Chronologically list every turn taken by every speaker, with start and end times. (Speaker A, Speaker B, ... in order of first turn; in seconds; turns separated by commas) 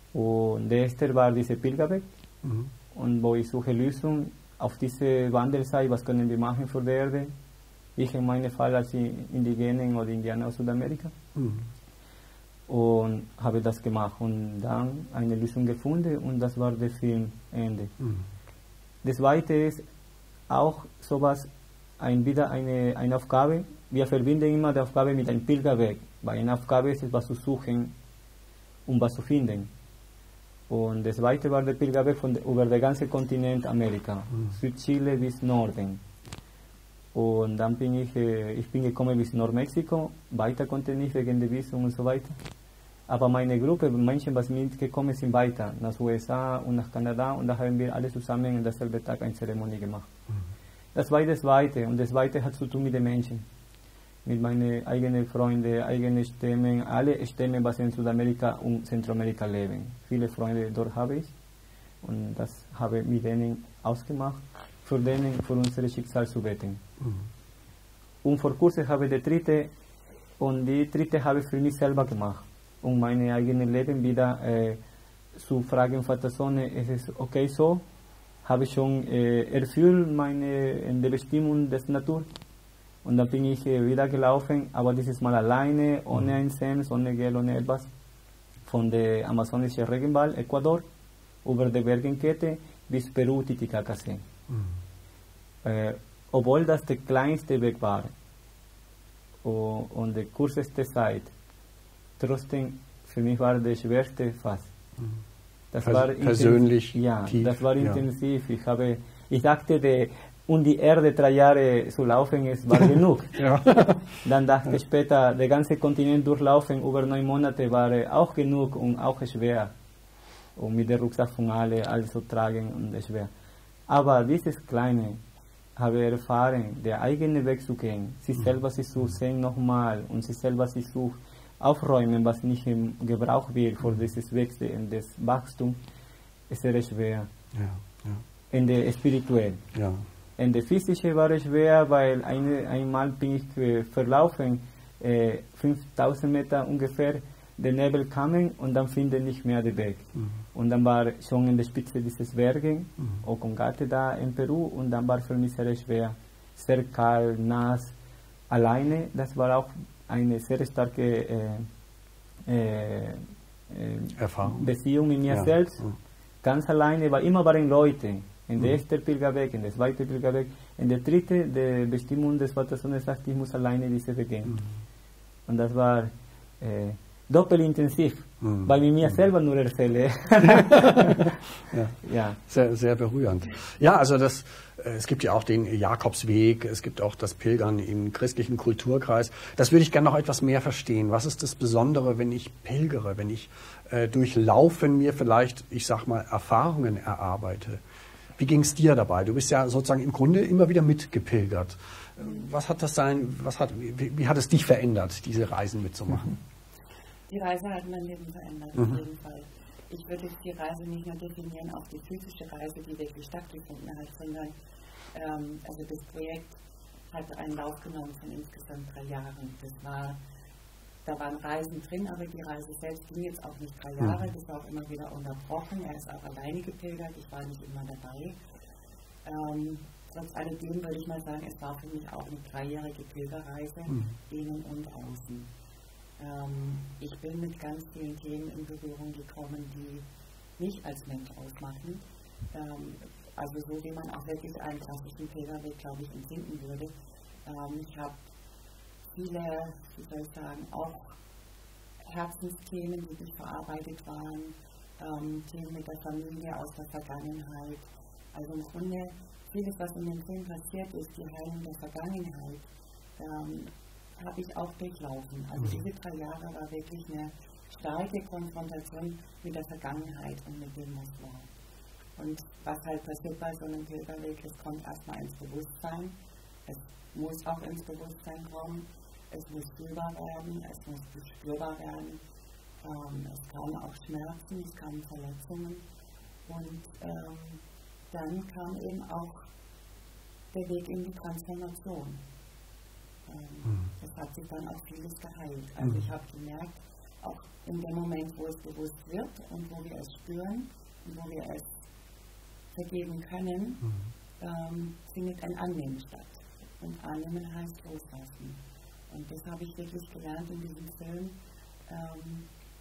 Speaker A: 0.1-2.0, Speaker B: 2.4-2.7, Speaker A: 2.9-7.3, Speaker A: 8.0-11.2, Speaker B: 11.3-11.7, Speaker A: 12.7-17.9, Speaker A: 19.0-19.9, Speaker A: 20.5-27.9, Speaker A: 28.9-29.7, Speaker A: 30.7-36.0, Speaker A: 37.1-42.4, Speaker A: 43.1-50.1, Speaker A: 51.0-53.5, Speaker A: 54.2-61.3, Speaker A: 62.0-66.8, Speaker A: 68.2-69.7, Speaker A: 70.4-74.8, Speaker A: 75.4-77.8, Speaker A: 78.4-82.3, Speaker A: 83.0-87.9, Speaker A: 88.7-90.9, Speaker A: 91.4-94.2, Speaker A: 95.6-98.1, Speaker A: 99.4-101.3, Speaker A: 102.2-104.7, Speaker A: 105.7-113.5, Speaker B: 105.8-108.0, Speaker B: 113.4-114.0, Speaker A: 114.2-119.7, Speaker A: 120.6-123.3, Speaker A: 123.9-125.2, Speaker A: 125.8-135.8, Speaker A: 136.5-137.3, Speaker B: 137.6-138.2, Speaker A: 138.5-139.6, Speaker B: 139.7-140.0, Speaker A: 140.4-157.9, Speaker A: 158.5-161.7, Speaker A: 162.5-165.8, Speaker B: 164.2-164.7, Speaker B: 165.3-165.9, Speaker A: 166.4-174.6, Speaker A: 175.5-181.4, Speaker B: 178.4-178.7, Speaker B: 180.4-182.0, Speaker A: 182.0-182.4, Speaker B: 182.5-197.8, Speaker B: 198.4-206.4, Speaker C: 207.3-214.5, Speaker C: 215.1-220.2, Speaker C: 221.0-228.3, Speaker C: 229.2-235.5, Speaker C: 236.2-240.1, Speaker C: 240.6-246.9, Speaker C: 247.5-248.2, Speaker C: 249.1-251.2, Speaker C: 252.0-271.5, Speaker C: 272.2-282.2, Speaker C: 282.8-285.8, Speaker C: 286.5-289.5, Speaker C: 290.5-292.2, Speaker C: 293.3-301.7, Speaker C: 302.7-303.9, Speaker C: 304.4-311.4, Speaker C: 311.9-312.5